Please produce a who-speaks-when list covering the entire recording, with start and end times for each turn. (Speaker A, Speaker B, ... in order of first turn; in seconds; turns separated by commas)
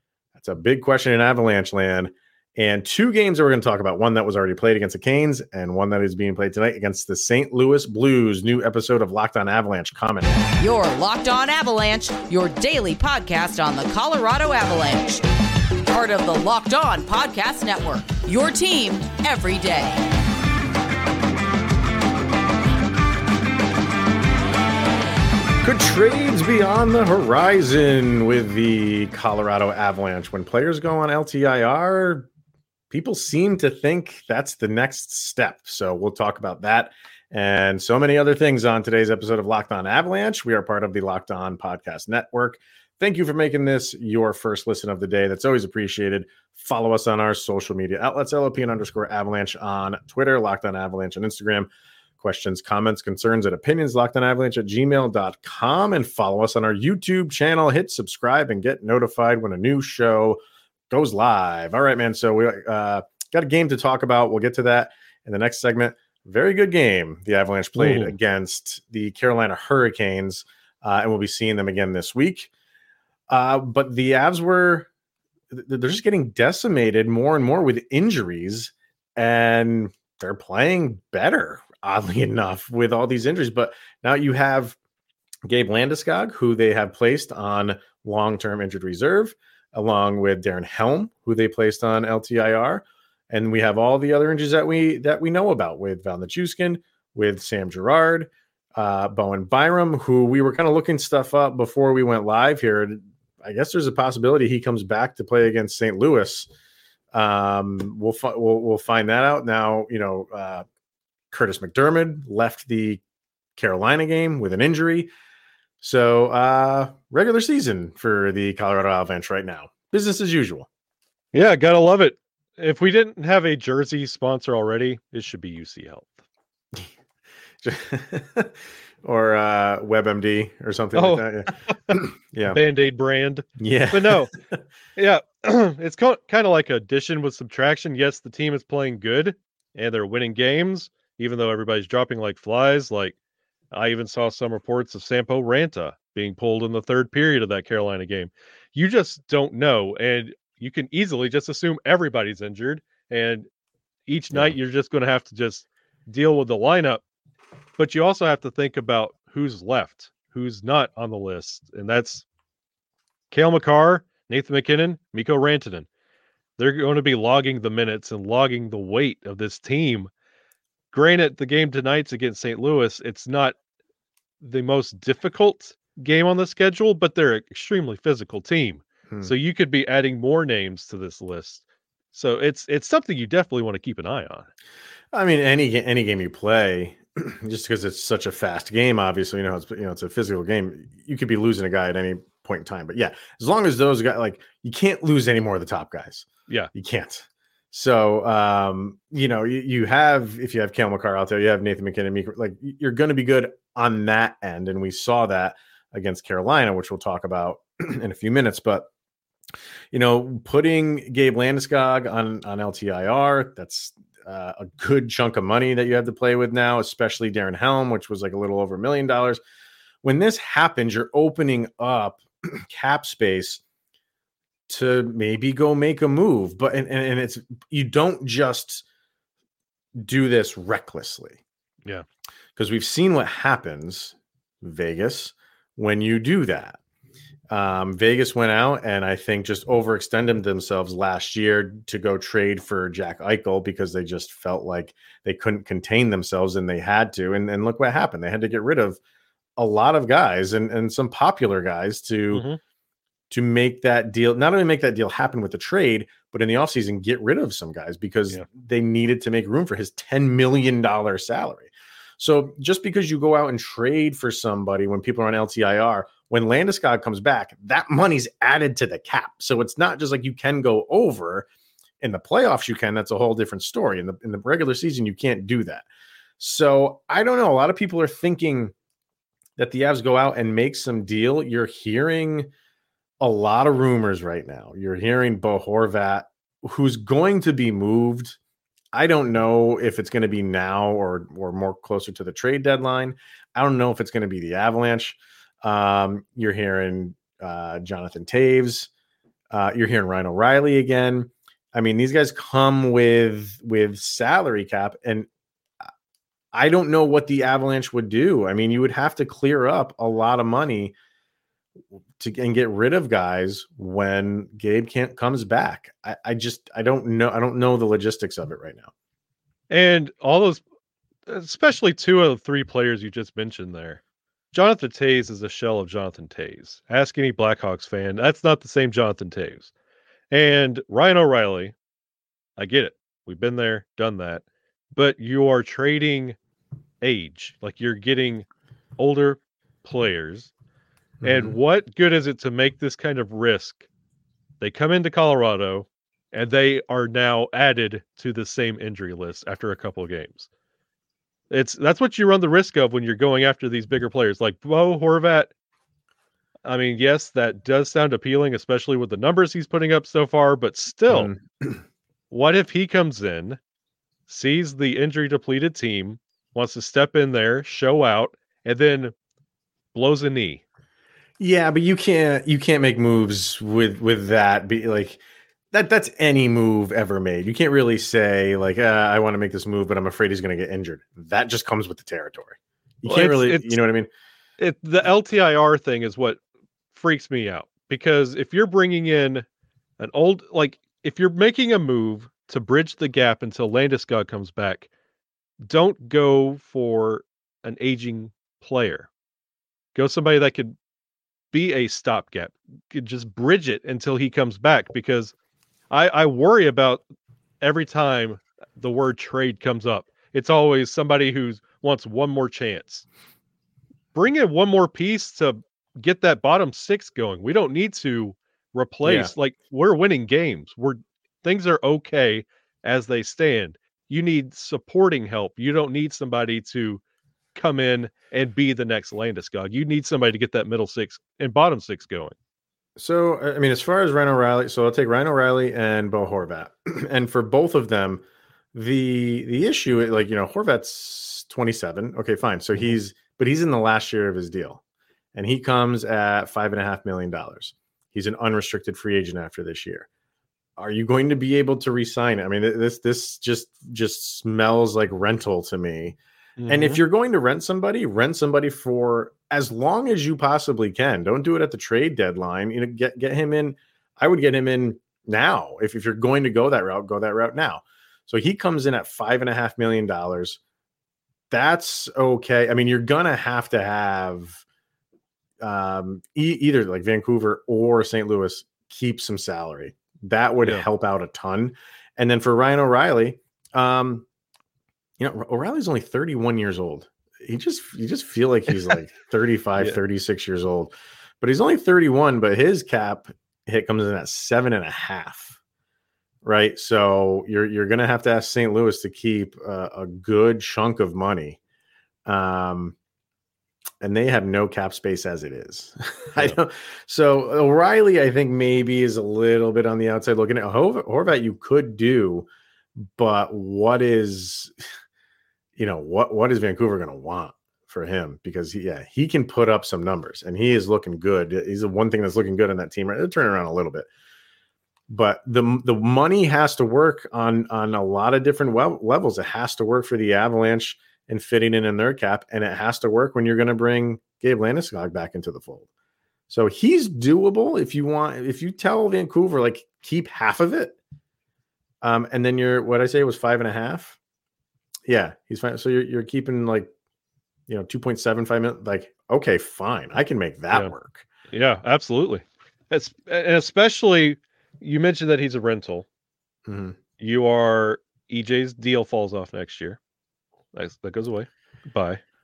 Speaker A: 0.3-10.6, Speaker B: 10.6-15.2, Speaker B: 15.9-20.0, Speaker A: 25.6-32.3, Speaker A: 32.9-72.5, Speaker C: 67.8-68.1, Speaker A: 73.3-74.9, Speaker A: 75.5-84.8, Speaker A: 85.5-106.5, Speaker A: 107.1-110.6, Speaker A: 111.3-113.0, Speaker A: 113.5-115.1, Speaker A: 115.8-120.7, Speaker C: 121.3-126.2, Speaker A: 127.6-132.6, Speaker C: 130.9-134.3, Speaker A: 133.6-134.6, Speaker C: 134.9-143.1, Speaker C: 143.7-153.5, Speaker C: 154.1-157.0, Speaker C: 157.8-162.2, Speaker C: 163.3-165.9, Speaker C: 166.6-170.1, Speaker C: 170.9-173.6, Speaker C: 174.4-184.5, Speaker A: 179.1-179.3, Speaker A: 185.1-208.9, Speaker A: 209.9-219.4, Speaker A: 220.0-223.6, Speaker A: 224.7-228.8, Speaker A: 230.0-231.4, Speaker A: 232.6-236.8, Speaker A: 237.5-249.0, Speaker A: 249.6-252.4, Speaker C: 252.3-252.6, Speaker A: 253.3-271.4, Speaker A: 272.0-275.9, Speaker A: 276.4-278.7, Speaker A: 279.6-282.5, Speaker A: 283.2-288.4, Speaker A: 288.9-298.9, Speaker A: 299.5-305.3, Speaker A: 306.5-310.9, Speaker A: 312.2-318.9, Speaker C: 319.7-320.6, Speaker C: 321.3-324.0, Speaker C: 324.5-329.7, Speaker C: 330.3-331.7, Speaker C: 332.6-334.4, Speaker C: 334.9-336.4, Speaker C: 337.0-338.4, Speaker C: 339.0-340.5, Speaker A: 341.2-341.5, Speaker C: 341.2-343.8, Speaker C: 344.6-350.5, Speaker C: 351.5-355.5, Speaker C: 356.6-361.3, Speaker A: 361.1-361.8, Speaker C: 362.3-363.6, Speaker C: 364.3-369.1, Speaker C: 369.9-370.6, Speaker A: 371.4-375.2, Speaker A: 375.7-384.1, Speaker C: 383.1-383.8, Speaker C: 384.6-386.4, Speaker C: 386.9-389.4, Speaker C: 390.0-394.9, Speaker C: 395.6-399.1, Speaker C: 399.9-400.8, Speaker C: 401.5-405.3, Speaker C: 405.9-407.0, Speaker C: 407.6-413.1, Speaker C: 414.1-427.0, Speaker A: 419.0-419.3, Speaker C: 427.5-432.3, Speaker A: 433.0-438.2, Speaker A: 438.7-444.8, Speaker A: 445.3-450.1, Speaker A: 450.8-470.6, Speaker C: 456.6-457.0, Speaker A: 471.5-474.6, Speaker A: 475.6-484.2, Speaker A: 485.2-495.6, Speaker A: 496.4-501.6, Speaker A: 502.2-502.9, Speaker A: 504.0-512.5, Speaker A: 513.0-514.7, Speaker A: 515.8-524.1, Speaker A: 525.1-535.9, Speaker A: 536.5-541.0, Speaker A: 542.0-544.2, Speaker A: 545.1-546.9, Speaker A: 547.7-551.2, Speaker C: 551.5-556.0, Speaker A: 556.7-557.0, Speaker C: 557.2-560.0, Speaker C: 560.7-562.2